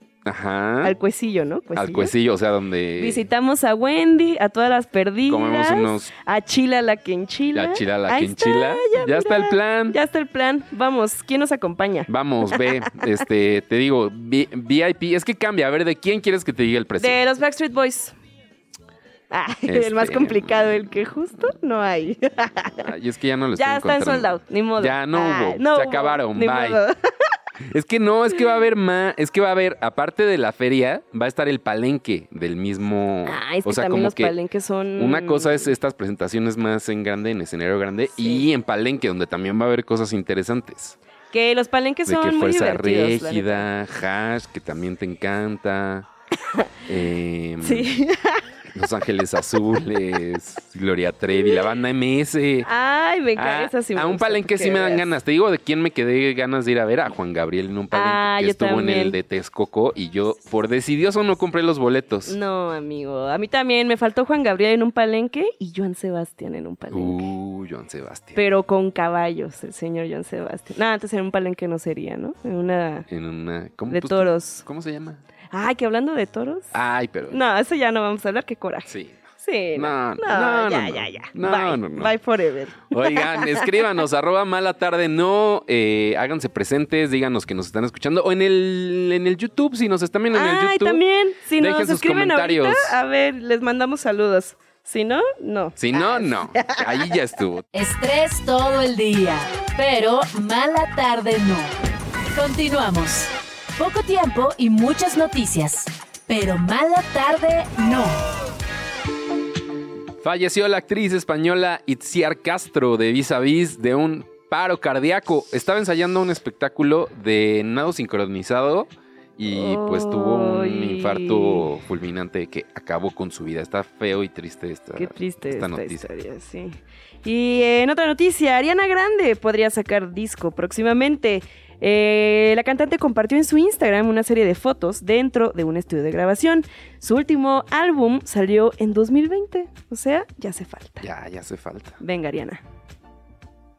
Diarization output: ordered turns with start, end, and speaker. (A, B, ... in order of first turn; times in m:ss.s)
0:00.2-0:00.9 A
0:00.8-0:02.1 B
0:01.7-0:03.2 A
0:03.0-0:12.6 B
0:05.3-0:06.1 A
0:07.5-0:10.0 A
0:12.1-0:17.2 A
0:17.0-0:18.1 B
0:19.3-0:22.9 B
0:19.7-0:20.7 A
0:22.8-0:26.8 A
0:23.6-0:27.0 B
0:27.7-0:34.3 A
0:33.2-0:35.7 B
0:35.0-0:41.0 A
0:38.2-0:38.5 B
0:41.3-0:43.7 B
0:42.0-0:46.1 A
0:46.9-0:47.9 A
0:47.6-0:48.4 B
0:48.7-0:52.7 A
0:52.6-0:55.1 B
0:53.4-1:02.4 A
0:57.9-0:59.2 B
1:02.2-1:07.3 B
1:06.9-1:08.4 A
1:08.3-1:13.1 B
1:13.1-1:15.2 A
1:13.9-1:14.6 B
1:15.5-1:16.7 B
1:16.7-1:17.4 A
1:17.3-1:23.6 B
1:18.9-1:19.2 A
1:19.7-1:22.1 A
1:22.9-1:31.0 A
1:30.3-1:37.1 B
1:31.6-1:33.0 A
1:35.8-1:37.6 A
1:37.7-1:41.7 C
1:42.3-1:48.2 C
1:50.2-2:06.0 A
1:59.4-2:01.7 B
2:05.0-2:21.0 B
2:21.0-2:22.0 A
2:22.0-2:22.6 B